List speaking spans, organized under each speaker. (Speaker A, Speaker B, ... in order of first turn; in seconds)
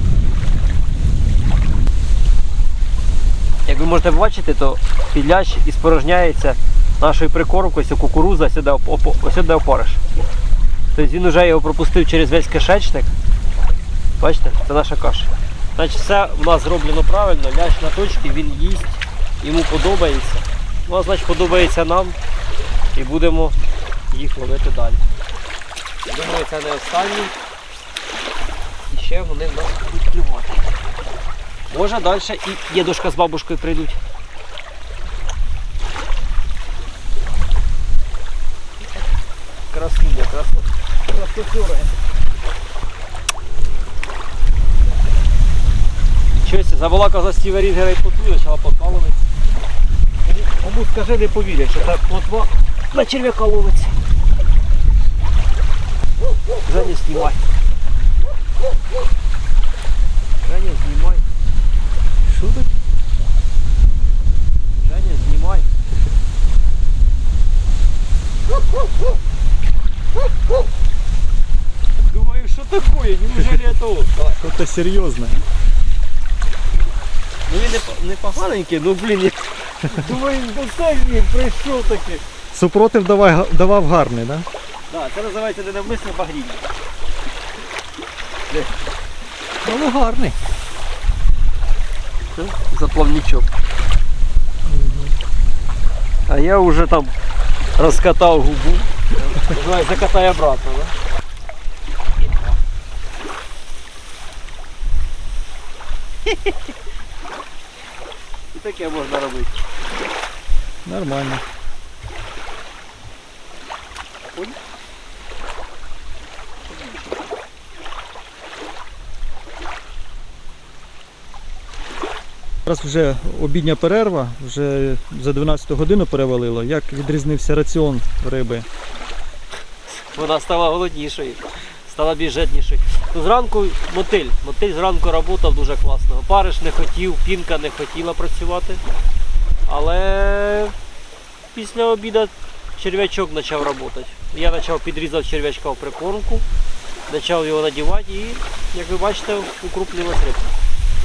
Speaker A: 3.6-10.0, 10.9-13.1, 14.2-22.2, 22.9-23.6, 24.1-25.0, 26.1-27.3, 28.9-30.8, 31.7-34.0, 39.7-41.9, 46.4-49.2, 50.2-54.0, 56.6-57.4, 60.4-61.3, 64.8-65.7, 72.1-74.4, 77.5-82.2, 84.9-86.7, 88.5-88.7, 92.3-93.5, 96.3-97.1, 97.8-101.0, 102.2-102.6, 108.5-109.6, 114.3-114.6, 129.9-138.8, 139.7-140.7, 141.5-146.4, 147.1-150.5
Speaker B: 62.3-62.6, 74.4-75.4, 82.5-84.5, 89.6-90.4, 94.6-95.1, 110.8-111.4, 122.7-128.7